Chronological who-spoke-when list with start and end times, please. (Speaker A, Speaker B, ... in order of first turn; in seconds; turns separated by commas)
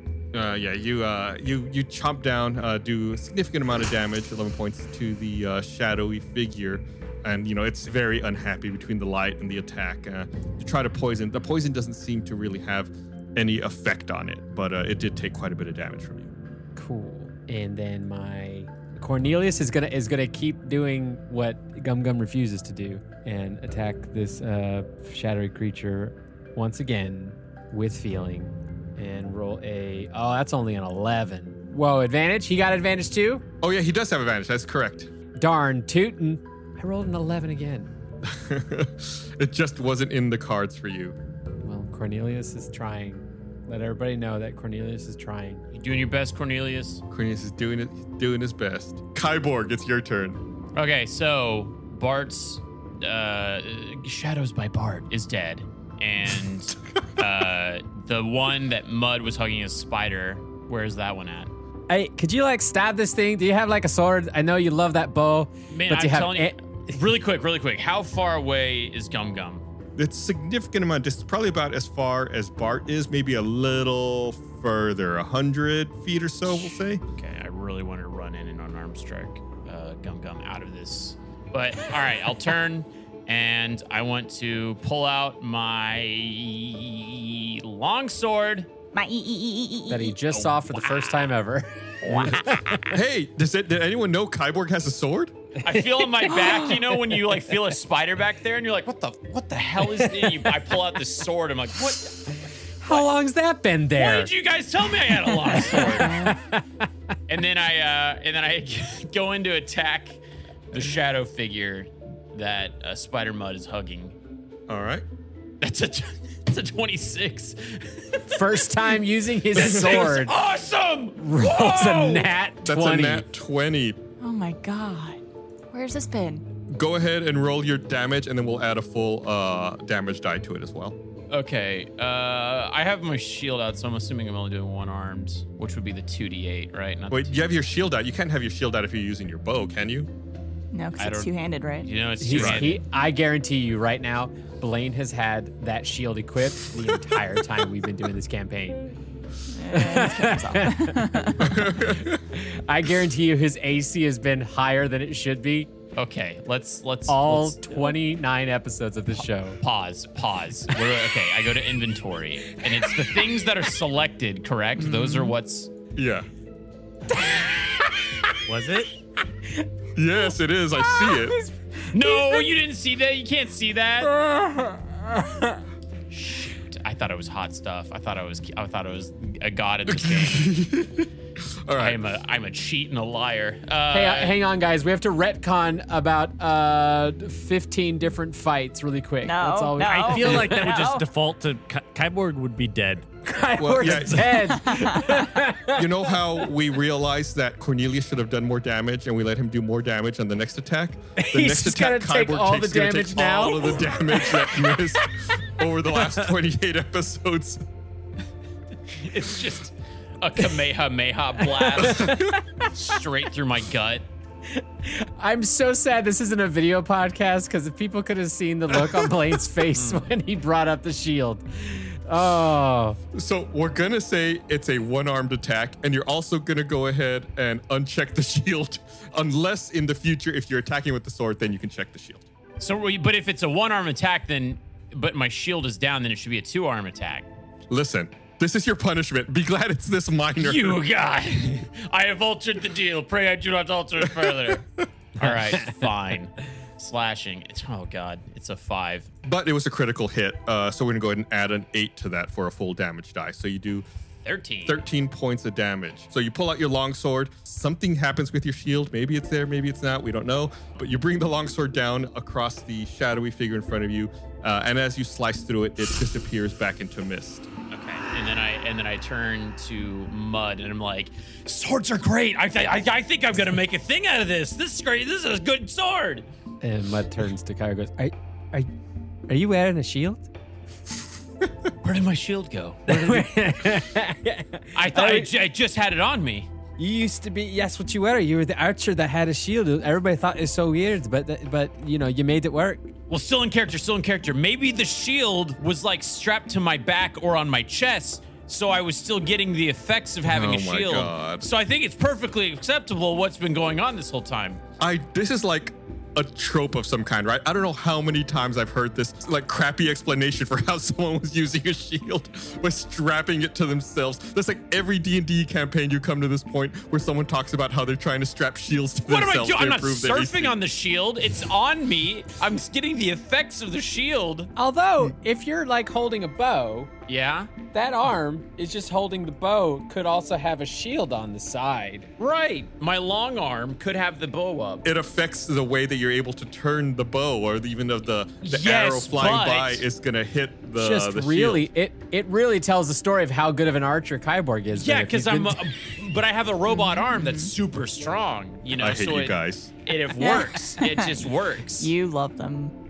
Speaker A: 0.3-16.3, Speaker B: 16.8-33.4, Speaker A: 33.6-35.1, Speaker B: 35.4-37.9, Speaker A: 38.2-41.2, Speaker B: 41.6-45.6, Speaker C: 45.7-47.0, Speaker A: 47.1-50.4, Speaker C: 50.7-61.5, Speaker B: 61.9-67.0, Speaker C: 65.7-69.6, Speaker A: 70.0-77.0, Speaker C: 77.2-88.7, Speaker D: 88.9-90.2, Speaker B: 89.9-92.8, Speaker C: 90.3-91.3, Speaker D: 92.1-92.5, Speaker A: 92.9-95.3, Speaker C: 95.6-102.3, Speaker B: 95.7-96.7, Speaker B: 100.0-100.3, Speaker B: 102.8-104.3, Speaker C: 104.0-106.4, Speaker B: 105.3-106.8, Speaker C: 107.3-110.2, Speaker C: 110.7-114.2, Speaker A: 114.7-115.0, Speaker C: 115.6-118.5, Speaker B: 118.3-120.3, Speaker C: 119.5-122.3, Speaker B: 121.2-123.3, Speaker A: 122.6-124.0, Speaker D: 124.2-126.5, Speaker A: 126.7-131.0, Speaker C: 131.3-137.4, Speaker A: 137.1-140.1, Speaker D: 140.7-141.9, Speaker C: 141.0-142.8, Speaker B: 142.2-148.9, Speaker A: 142.3-142.7, Speaker D: 149.5-151.6, Speaker B: 149.7-155.7, Speaker A: 151.4-152.2, Speaker C: 155.9-158.0, Speaker B: 157.1-159.6, Speaker C: 159.6-165.7, Speaker A: 165.9-166.3, Speaker E: 168.5-168.9, Speaker A: 169.9-171.4, Speaker B: 170.9-171.5, Speaker C: 171.9-174.2, Speaker B: 174.2-175.1, Speaker C: 176.1-180.5, Speaker A: 179.9-182.0, Speaker C: 181.8-184.4, Speaker B: 183.9-190.7, Speaker D: 189.2-191.1, Speaker E: 189.8-193.1, Speaker B: 193.3-196.4, Speaker A: 193.6-194.5, Speaker D: 194.6-195.3, Speaker A: 195.7-207.6, Speaker B: 201.2-204.7, Speaker C: 208.9-214.1, Speaker B: 211.8-212.4, Speaker A: 211.9-212.3, Speaker B: 214.6-223.0, Speaker C: 219.7-220.0, Speaker A: 223.1-232.3, Speaker C: 232.6-237.3, Speaker A: 237.7-240.8, Speaker C: 240.4-244.7, Speaker C: 245.2-249.1, Speaker A: 249.2-253.9, Speaker C: 254.2-254.8, Speaker A: 254.7-267.5, Speaker C: 267.7-276.3, Speaker B: 276.6-278.7, Speaker B: 279.3-280.3, Speaker C: 281.8-283.3, Speaker B: 282.9-285.3, Speaker C: 284.8-286.5, Speaker B: 286.8-292.9, Speaker C: 293.1-304.6, Speaker A: 300.2-301.5, Speaker A: 304.8-320.6, Speaker C: 319.1-324.5, Speaker B: 324.6-326.9, Speaker C: 327.1-327.5, Speaker B: 327.7-332.1, Speaker C: 332.2-334.9, Speaker A: 334.8-341.7, Speaker C: 338.4-339.9, Speaker B: 340.8-345.6, Speaker C: 344.7-351.9, Speaker D: 346.7-347.5, Speaker A: 348.8-349.7, Speaker D: 350.2-351.3, Speaker D: 351.8-352.7